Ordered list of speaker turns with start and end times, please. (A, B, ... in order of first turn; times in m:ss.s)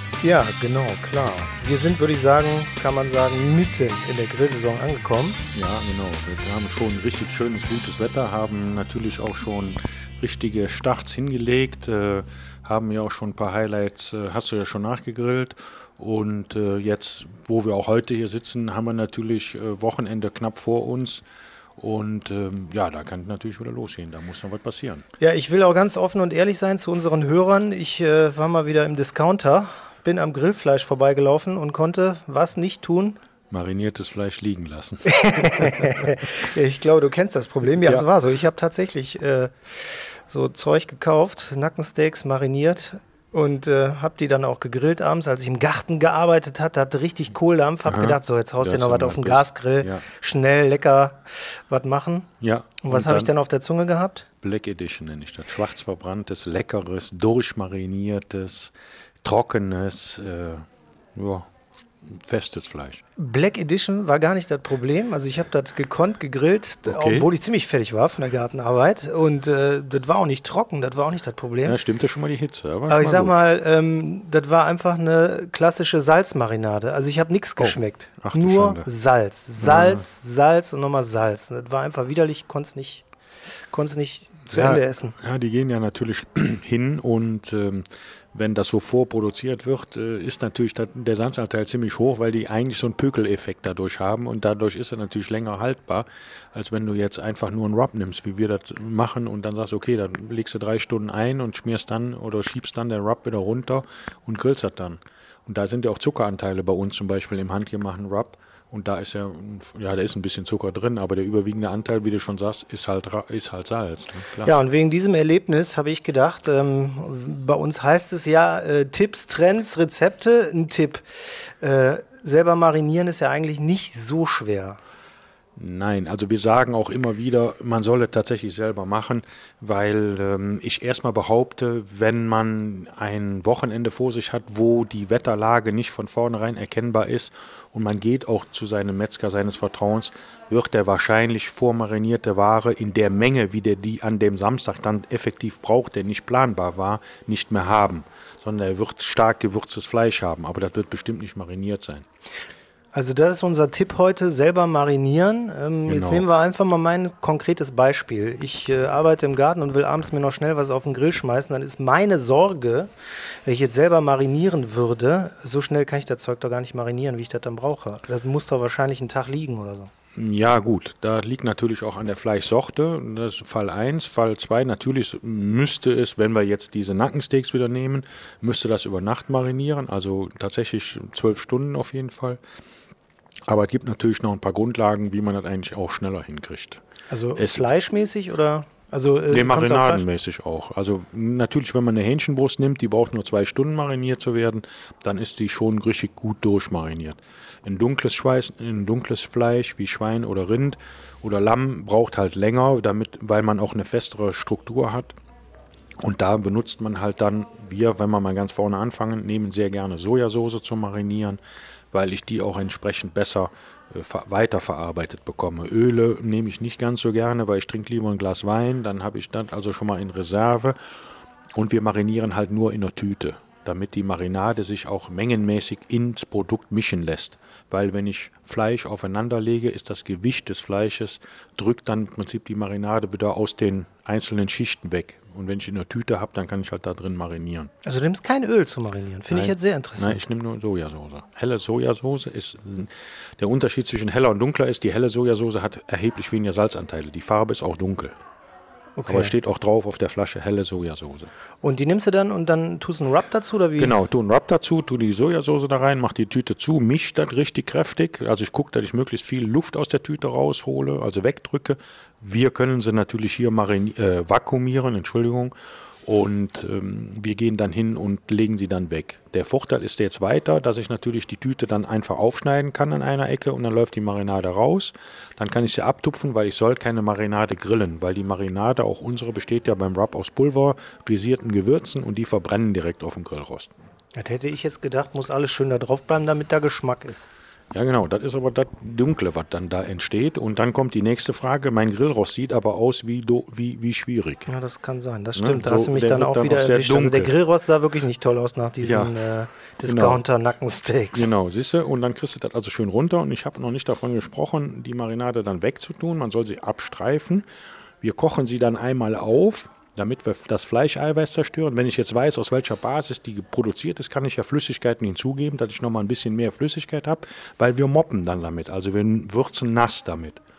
0:00.2-0:05.4 A
0:05.5-0:21.2 B
0:21.8-0:25.0 B
0:25.2-0:33.2 A
0:33.5-0:35.9 B
0:35.0-0:52.3 A
0:47.8-0:50.0 B
0:52.4-0:53.3 B
0:52.8-0:54.3 A
0:54.4-1:01.5 B
1:02.0-1:03.0 B
1:03.2-1:11.8 A
1:06.8-1:07.3 B
1:11.6-1:13.3 B
1:12.9-1:23.0 A
1:17.6-1:18.9 B
1:19.6-1:20.0 B
1:23.7-1:25.2 A
1:24.5-1:54.5 B
1:54.4-2:04.8 A
2:05.6-2:32.0 B
2:32.9-2:49.9 A
2:35.9-2:36.2 B
2:50.2-3:02.4 B
3:03.5-3:06.8 B
3:07.1-3:10.0 A
3:07.4-3:07.7 B
3:09.3-3:25.2 B
3:26.0-3:31.4 B
3:31.9-3:40.8 B
3:41.6-3:57.7 B
3:57.8-4:00.2 A
3:59.3-4:08.1 B
4:09.0-4:09.3 A
4:09.0-4:11.3 B
4:11.6-4:14.0 A
4:13.8-4:25.5 B
4:26.0-4:43.7 B
4:44.1-4:47.3 A
4:47.7-4:54.5 B
4:54.5-5:01.3 A
4:55.3-4:57.3 B
4:58.8-4:59.1 B
4:59.8-5:00.2 B
5:01.1-5:07.4 B
5:08.0-5:20.4 B